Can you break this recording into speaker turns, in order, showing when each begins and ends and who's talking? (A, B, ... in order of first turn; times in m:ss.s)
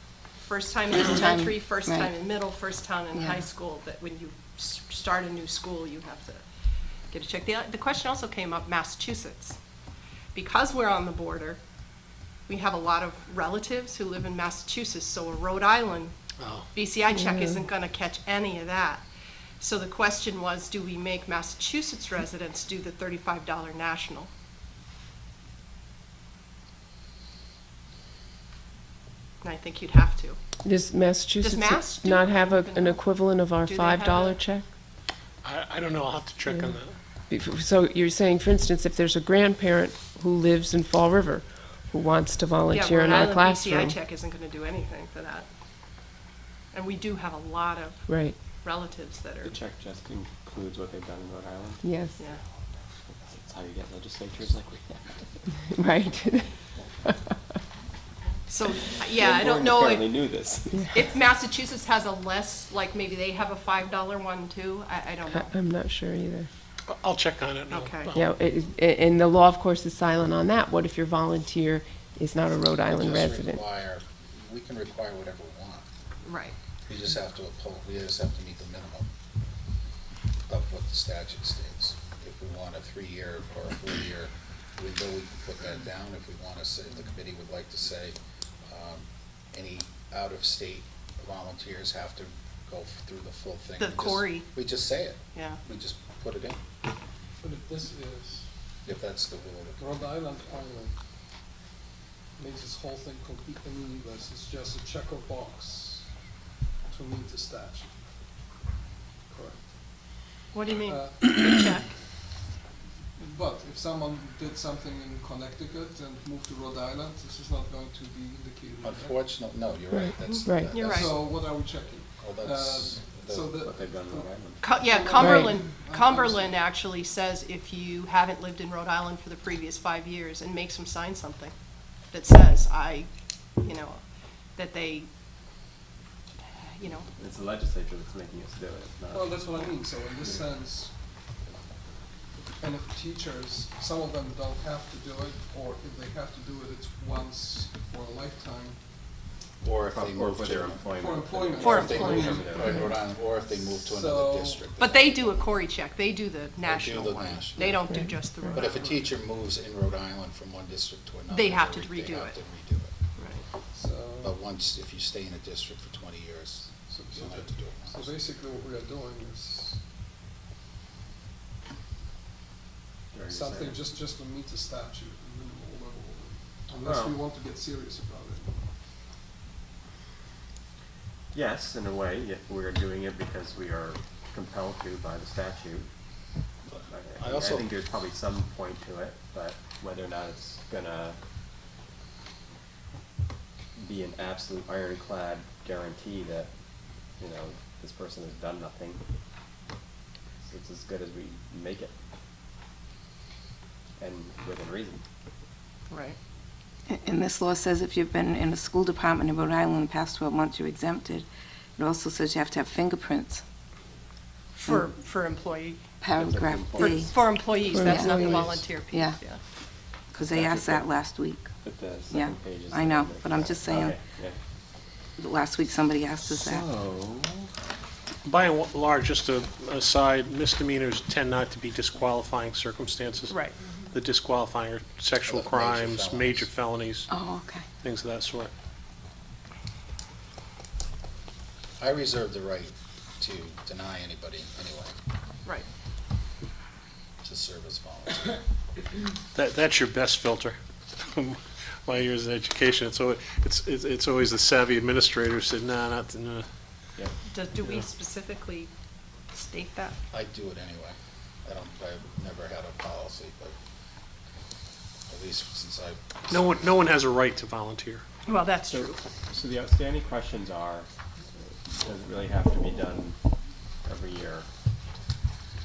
0:00.4-0:06.4 A
0:00.9-0:02.1 B
0:03.2-0:03.4 B
0:07.1-0:09.6 A
0:10.3-0:11.6 A
0:12.5-0:16.2 A
0:16.4-0:16.7 C
0:16.7-0:19.1 A
0:17.1-0:17.6 D
0:19.6-0:24.3 A
0:29.4-0:30.4 A
0:30.6-0:34.6 D
0:31.4-0:34.4 A
0:35.4-0:37.0 C
0:37.3-0:44.0 D
0:42.7-0:45.5 A
0:46.7-0:48.1 A
0:48.1-0:48.4 D
0:48.6-0:49.6 A
0:49.4-0:51.8 E
0:51.8-0:52.2 D
0:53.1-0:55.1 E
0:55.6-0:56.5 D
0:58.5-1:00.2 A
0:59.1-1:00.9 E
1:00.9-1:05.5 A
1:05.3-1:06.5 D
1:06.9-1:08.3 C
1:07.7-1:08.1 A
1:08.1-1:13.6 D
1:12.9-1:15.8 F
1:16.2-1:16.6 A
1:16.9-1:19.1 F
1:20.5-1:36.6 F
1:33.8-1:34.5 A
1:35.4-1:35.6 A
1:37.4-1:38.5 G
1:38.8-1:39.9 F
1:39.8-1:41.0 G
1:42.4-1:46.1 G
1:46.9-1:47.9 G
1:49.3-1:49.6 G
1:50.5-1:51.9 A
1:50.8-1:51.4 G
1:53.2-1:59.2 G
1:58.8-2:01.4 F
1:59.9-2:00.7 D
2:00.2-2:01.1 A
2:00.9-2:06.7 G
2:02.2-2:03.6 F
2:03.6-2:04.7 E
2:04.6-2:11.5 A
2:05.2-2:05.5 D
2:12.1-2:14.0 A
2:14.6-2:15.1 A
2:16.6-2:17.1 A
2:17.2-2:19.7 E
2:19.1-2:20.9 G
2:22.6-2:28.8 G
2:29.6-2:30.9 F
2:29.9-2:32.9 E
2:30.9-2:33.0 G
2:31.6-2:32.4 A
2:31.6-2:35.6 F
2:33.6-2:34.7 G
2:34.8-2:38.9 A
2:36.6-2:42.9 F
2:41.3-2:42.4 A
2:43.2-2:43.4 A
2:43.7-2:44.4 G
2:44.2-2:48.2 F
2:46.9-2:49.8 G
2:53.1-2:53.8 E
2:53.3-2:58.6 G
2:56.8-2:57.2 E
3:01.3-3:05.9 E
3:06.7-3:07.8 F
3:06.9-3:11.2 E
3:13.8-3:16.5 E
3:17.2-3:19.0 E
3:20.4-3:22.0 E
3:24.0-3:25.0 E
3:25.9-3:26.2 A
3:26.9-3:33.4 B
3:34.6-3:35.8 A
3:36.0-3:37.1 B
3:36.2-3:37.0 E
3:36.2-3:37.1 F
3:36.8-3:39.4 A
3:37.7-3:38.6 F
3:37.7-3:38.4 D
3:37.9-3:38.4 B
3:38.9-3:39.2 B
3:40.1-3:41.5 B
3:40.2-3:41.0 E
3:41.6-3:44.4 E
3:42.1-3:44.0 B
3:45.2-3:46.6 B
3:46.2-3:47.5 E
3:48.2-3:53.4 C
3:53.3-3:53.9 A
3:53.9-3:57.1 C
3:55.2-3:56.5 F
3:57.1-3:57.7 B
3:57.8-3:58.5 C
4:01.8-4:05.0 F
4:07.2-4:08.4 F
4:09.4-4:16.5 C
4:17.3-4:18.7 A
4:17.6-4:17.9 C
4:19.3-4:20.0 A
4:20.1-4:23.6 F
4:25.1-4:26.6 F
4:26.3-4:28.0 C
4:28.3-4:29.0 A
4:28.7-4:30.9 E
4:31.7-4:33.2 E
4:33.8-4:34.5 E